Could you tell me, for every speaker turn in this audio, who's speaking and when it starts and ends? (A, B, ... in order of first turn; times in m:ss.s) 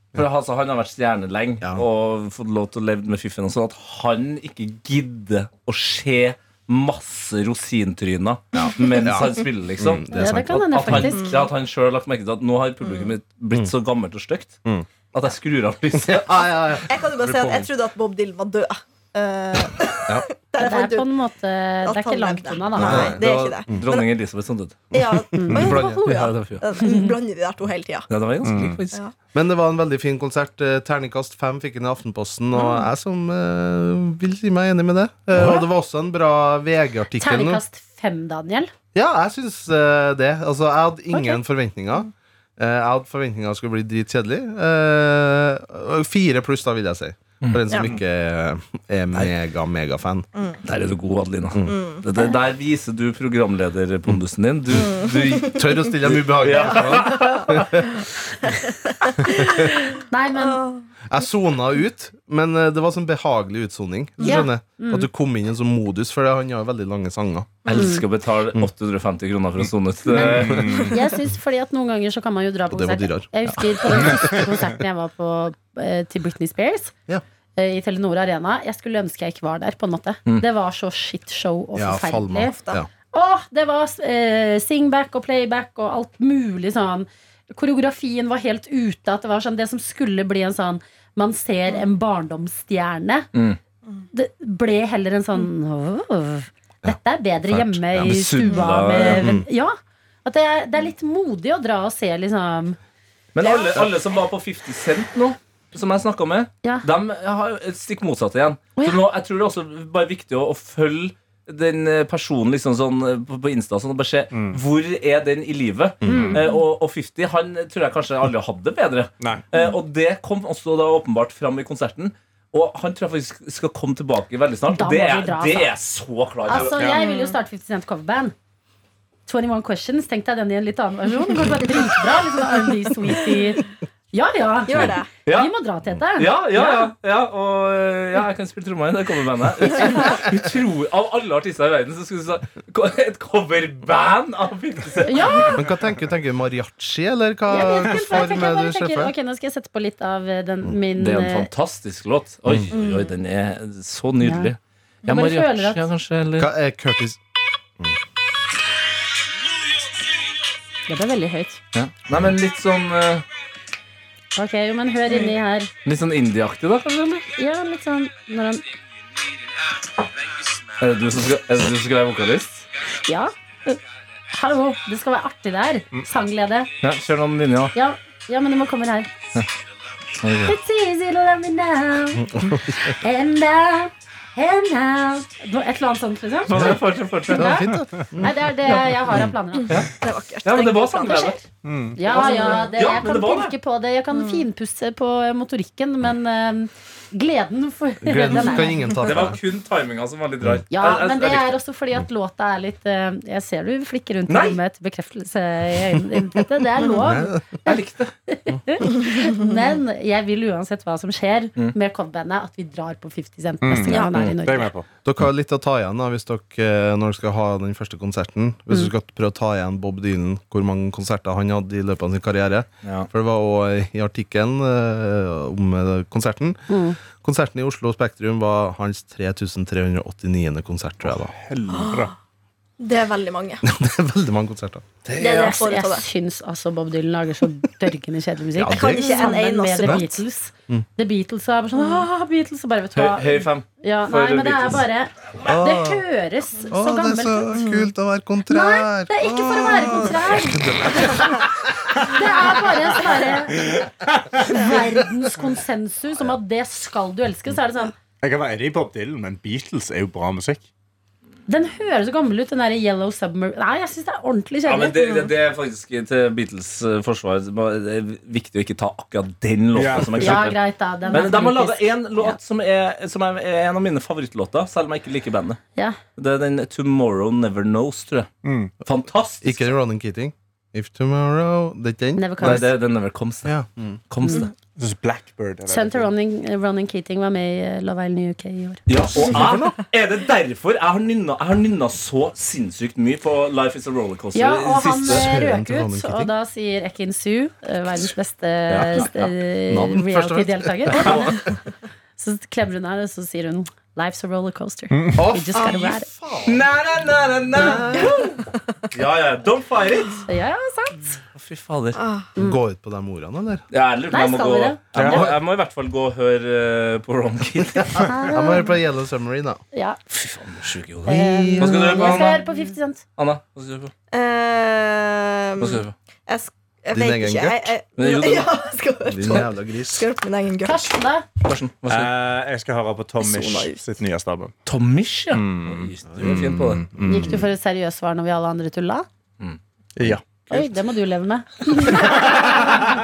0:00.1-0:16.3 A
0:08.5-0:11.1 B
0:10.1-0:11.4 C
0:11.1-0:11.4 D
0:12.8-0:13.1 D
0:15.9-0:17.7 B
0:16.9-0:21.1 D
0:20.6-0:23.1 C
0:21.8-0:24.0 D
0:22.8-0:23.8 B
0:23.7-0:24.9 A
0:24.9-0:28.1 D
0:25.3-0:25.6 C
0:25.4-0:26.0 B
0:25.5-0:25.8 E
0:25.6-0:26.6 A
0:26.8-0:27.1 C
0:28.1-0:29.0 A
0:28.4-0:28.8 E
0:29.3-0:37.6 B
0:37.2-0:38.7 C
0:38.9-0:50.3 B
0:41.1-0:41.4 C
0:47.7-0:48.0 D
0:50.3-0:50.6 D
0:50.6-0:57.9 A
0:51.5-0:51.8 B
0:51.6-0:52.0 D
0:54.8-0:55.6 D
0:55.5-0:57.9 B
0:56.6-0:57.5 D
0:58.4-1:00.8 D
0:59.2-0:59.7 B
1:00.1-1:00.6 C
1:01.1-1:07.6 B
1:04.2-1:05.1 C
1:07.6-1:07.9 D
1:07.6-1:10.9 A
1:07.7-1:08.0 C
1:10.1-1:16.9 C
1:10.1-1:10.9 E
1:10.7-1:11.1 D
1:12.7-1:13.3 B
1:14.2-1:14.5 E
1:17.6-1:22.5 C
1:21.7-1:22.9 B
1:23.1-1:33.3 C
1:34.1-1:42.8 C
1:37.5-1:38.2 B
1:38.0-1:39.3 A
1:38.4-1:39.0 D
1:39.2-1:39.5 B
1:43.3-2:07.0 A
1:43.4-1:43.9 D
1:54.3-1:54.6 E
1:56.0-1:56.4 B
1:56.1-1:56.3 E
1:56.1-1:56.6 C
2:04.7-2:05.7 C
2:06.5-2:08.3 C
2:06.8-2:07.1 E
2:06.8-2:07.4 D
2:09.3-2:16.9 C
2:14.6-2:15.1 D
2:14.8-2:15.5 A
2:16.1-2:25.6 A
2:19.8-2:20.2 C
2:25.0-2:25.6 C
2:25.5-2:29.1 B
2:27.4-2:31.5 C
2:31.0-2:36.5 A
2:32.7-2:33.1 D
2:34.2-2:34.5 C
2:35.0-2:35.8 C
2:36.4-2:37.2 B
2:40.9-2:41.6 C
2:41.7-2:43.2 A
2:44.4-2:45.7 C
2:45.1-2:45.3 D
2:45.8-2:47.2 A
2:47.4-2:48.6 C
2:50.8-2:52.6 A
2:53.0-2:53.8 C
2:54.3-2:56.7 C
2:56.8-2:57.7 A
2:57.7-2:59.1 C
3:00.2-3:00.5 A
3:00.4-3:06.7 C
3:02.1-3:03.0 B
3:06.5-3:07.6 A
3:06.5-3:08.3 B
3:07.3-3:09.7 C
3:08.6-3:11.4 A
3:10.0-3:11.4 D
3:11.6-3:12.0 E
3:12.0-3:18.9 C
3:12.0-3:12.8 D
3:12.1-3:13.5 A
3:14.1-3:14.4 D
3:18.0-3:19.4 B
3:18.9-3:21.6 A
3:20.7-3:34.7 C
3:24.3-3:24.6 A
3:26.9-3:27.6 B
3:27.6-3:28.1 A
3:29.1-3:29.5 D
3:33.6-3:34.8 E
3:33.9-3:34.3 D
3:34.0-3:34.4 A
3:35.0-3:51.3 B
3:42.8-3:43.1 A
3:46.7-3:47.0 C
3:51.0-3:52.1 E
3:51.7-3:52.1 D
3:52.8-3:53.6 D
3:53.6-3:54.8 B
3:55.0-3:55.6 A
3:55.2-3:56.0 D
3:55.2-4:07.7 C
3:58.6-4:00.0 B
3:58.7-4:00.2 D
4:02.9-4:04.8 A
4:05.4-4:06.0 B
4:06.7-4:12.1 B
4:07.5-4:07.9 D
4:08.5-4:10.6 C
4:11.9-4:13.8 C
4:13.7-4:14.4 E
4:14.4-4:17.9 C
4:14.5-4:14.8 D
4:18.2-4:20.7 E
4:21.5-4:25.3 C
4:24.6-4:30.6 A
4:29.7-4:30.5 E
4:30.2-4:32.4 C
4:31.1-4:35.6 A
4:36.2-4:38.3 A
4:38.4-4:38.7 E
4:38.8-4:39.7 A
4:39.4-4:42.8 B
4:42.2-4:42.7 C
4:42.4-4:43.5 A
4:43.4-4:44.0 B
4:44.1-4:44.5 A
4:44.2-4:44.5 C
4:44.7-4:46.1 E
4:45.7-4:48.8 C
4:48.9-4:55.3 A
4:49.2-4:49.8 B
4:54.3-5:01.5 C
4:55.0-4:56.3 B
4:58.7-4:59.3 A
4:59.7-5:01.4 B
5:00.9-5:01.4 A
5:02.2-5:06.1 C
5:04.9-5:05.2 E
5:05.2-5:06.7 B
5:05.5-5:05.9 D
5:06.4-5:08.2 A
5:07.6-5:08.3 D
5:07.6-5:08.4 C
5:08.9-5:10.2 A
5:10.3-5:11.2 C
5:11.3-5:12.0 A
5:11.9-5:12.3 D
5:12.4-5:13.6 B
5:13.7-5:18.1 A
5:14.1-5:15.3 C
5:14.9-5:15.3 E
5:17.6-5:19.6 B
5:18.0-5:18.2 E
5:18.0-5:18.8 C
5:19.7-5:20.0 C
5:20.1-5:22.4 A
5:21.0-5:22.4 B
5:21.0-5:23.0 C
5:23.2-5:23.9 A
5:24.1-5:31.0 D
5:25.6-5:25.9 A
5:26.9-5:27.7 B
5:28.0-5:28.5 A
5:29.0-5:30.1 B
5:30.6-5:31.2 C
5:31.4-5:32.1 A
5:31.9-5:34.5 E
5:33.2-5:33.8 D
5:34.6-5:36.9 A
5:35.3-5:37.4 E
5:37.0-5:39.1 C
5:40.0-5:40.2 E
5:40.5-5:42.8 C